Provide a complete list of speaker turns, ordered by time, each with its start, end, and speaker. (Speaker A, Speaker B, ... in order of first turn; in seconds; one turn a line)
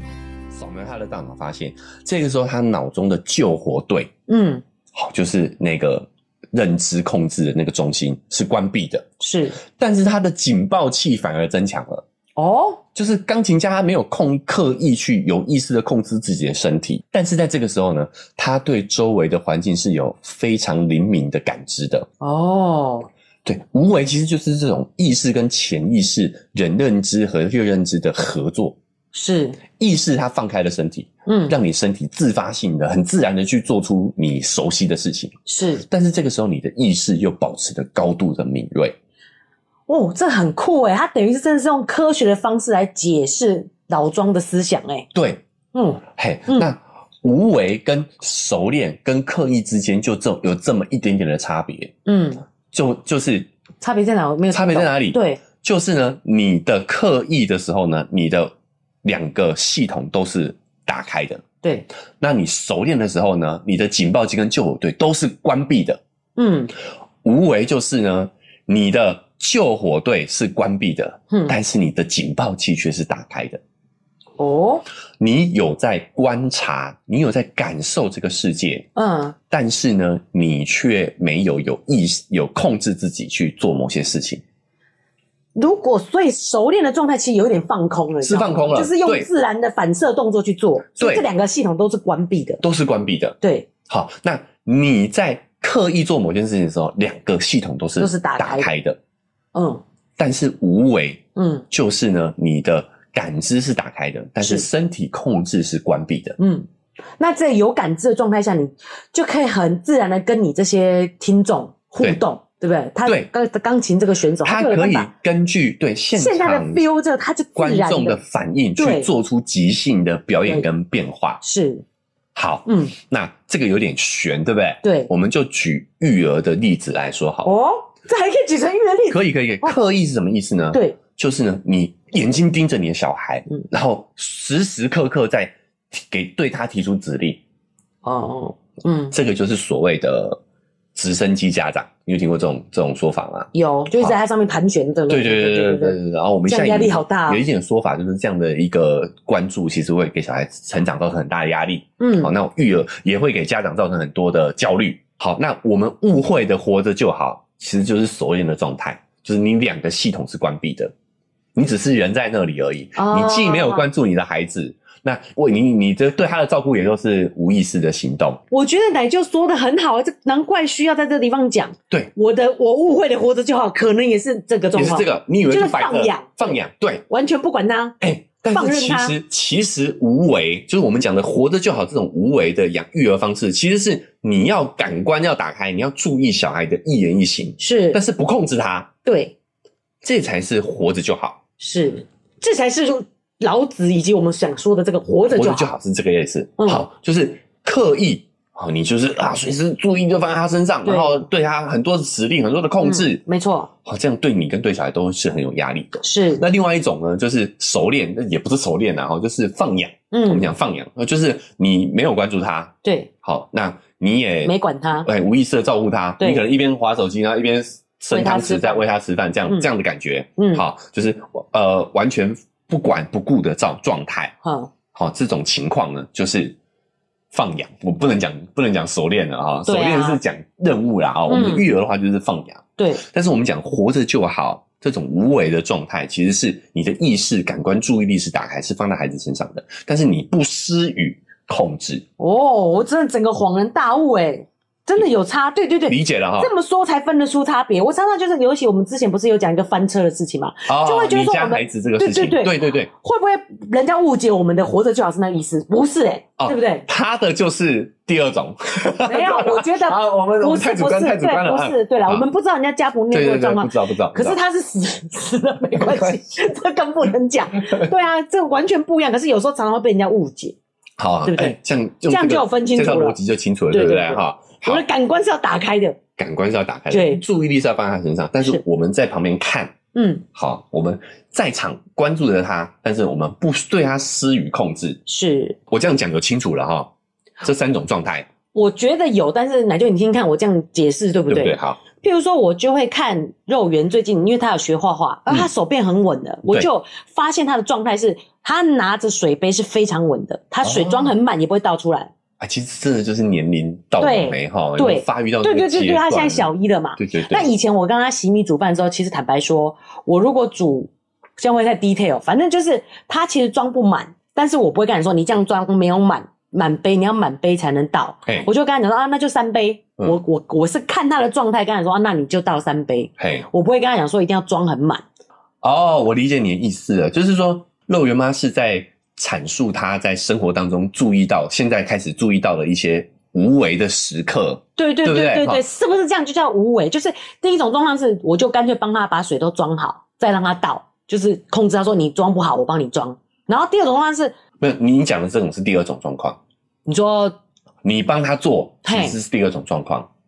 Speaker A: 0.5-4.1
Speaker B: 4.3-4.6
Speaker A: 4.9-9.1
Speaker B: 9.2-9.6
Speaker A: 9.7-12.0
Speaker B: 12.4-12.8
Speaker A: 12.9-22.1
Speaker B: 22.2-23.1
Speaker A: 23.4-28.8
Speaker B: 29.1-29.6
Speaker A: 29.8-39.0
Speaker B: 31.2-31.5
Speaker B: 35.5-35.8
Speaker B: 39.9-45.1
Speaker A: 45.1-45.4
Speaker B: 45.7-46.7
Speaker A: 46.1-51.9
Speaker B: 52.0-52.4
Speaker A: 52.7-53.5
Speaker B: 53.8-55.4
Speaker A: 54.5-61.4
Speaker A: 62.2-66.0
Speaker B: 66.4-66.7
Speaker A: 67.2-73.6
Speaker B: 71.3-71.6
Speaker B: 74.4-74.8
Speaker A: 75.2-78.9
Speaker B: 79.0-79.3
Speaker A: 79.5-84.4
Speaker B: 85.5-92.6
Speaker A: 88.2-89.3
Speaker A: 91.0-91.2
Speaker A: 92.6-99.0
Speaker B: 93.4-93.7
Speaker B: 98.0-98.7
Speaker B: 99.5-99.8
Speaker A: 100.2-106.3
Speaker B: 101.3-101.6
Speaker B: 104.4-104.7
Speaker B: 106.4-106.7
Speaker B: 107.2-115.1
Speaker A: 113.0-113.3
Speaker A: 114.4-116.8
Speaker B: 116.1-118.2
Speaker A: 117.5-121.4
Speaker B: 118.8-119.1
Speaker B: 121.4-121.8
Speaker A: 122.3-127.5
Speaker B: 122.7-122.9
Speaker B: 124.8-125.1
Speaker B: 127.4-129.8
Speaker A: 129.1-137.4
Speaker B: 130.7-131.0
Speaker B: 138.0-139.1
Speaker A: 139.1-140.4
Speaker A: 140.9-144.2
Speaker B: 143.5-147.4
Speaker A: 145.1-160.9
Speaker B: 152.0-152.3
Speaker A: 161.5-168.4
Speaker B: 163.0-163.8
Speaker B: 168.5-176.6
Speaker A: 174.7-177.1
Speaker B: 177.1-177.9
Speaker A: 178.0-188.9
Speaker B: 178.5-179.2
Speaker B: 187.6-188.0
Speaker B: 189.0-189.3
Speaker A: 190.0-191.4
Speaker B: 191.6-195.7
Speaker A: 195.3-203.2
Speaker B: 196.6-196.9
Speaker B: 200.8-201.2
Speaker B: 202.8-203.7
Speaker A: 203.8-224.3
Speaker B: 206.0-206.4
Speaker B: 210.1-210.5
Speaker B: 212.8-213.1
Speaker B: 214.4-215.1
Speaker B: 218.1-218.8
Speaker B: 220.4-220.6
Speaker B: 224.4-224.7
Speaker A: 224.9-226.6
Speaker A: 227.3-242.1
Speaker B: 229.7-230.2
Speaker B: 231.3-231.7
Speaker B: 232.8-233.0
Speaker B: 242.2-256.9
Speaker A: 245.9-246.5
Speaker A: 250.7-252.9
Speaker A: 256.4-262.2
Speaker B: 259.0-270.6
Speaker A: 263.1-264.4
Speaker A: 265.8-266.2
Speaker A: 267.6-267.9
Speaker A: 271.0-274.8
Speaker B: 271.2-271.6
Speaker B: 272.1-273.2
Speaker B: 273.7-276.0
Speaker A: 276.2-279.7
Speaker B: 276.9-277.2
Speaker B: 279.9-280.2
Speaker A: 280.3-285.0
Speaker B: 285.1-285.6
Speaker A: 285.7-288.3
Speaker B: 288.5-302.1
Speaker A: 291.3-291.8
Speaker A: 300.6-301.1
Speaker A: 302.4-307.5
Speaker B: 304.0-325.0
Speaker A: 323.2-323.5
Speaker A: 325.6-335.6
Speaker B: 334.8-344.3
Speaker A: 344.6-346.4
Speaker B: 346.9-347.4
Speaker A: 347.8-350.1
Speaker B: 348.8-349.1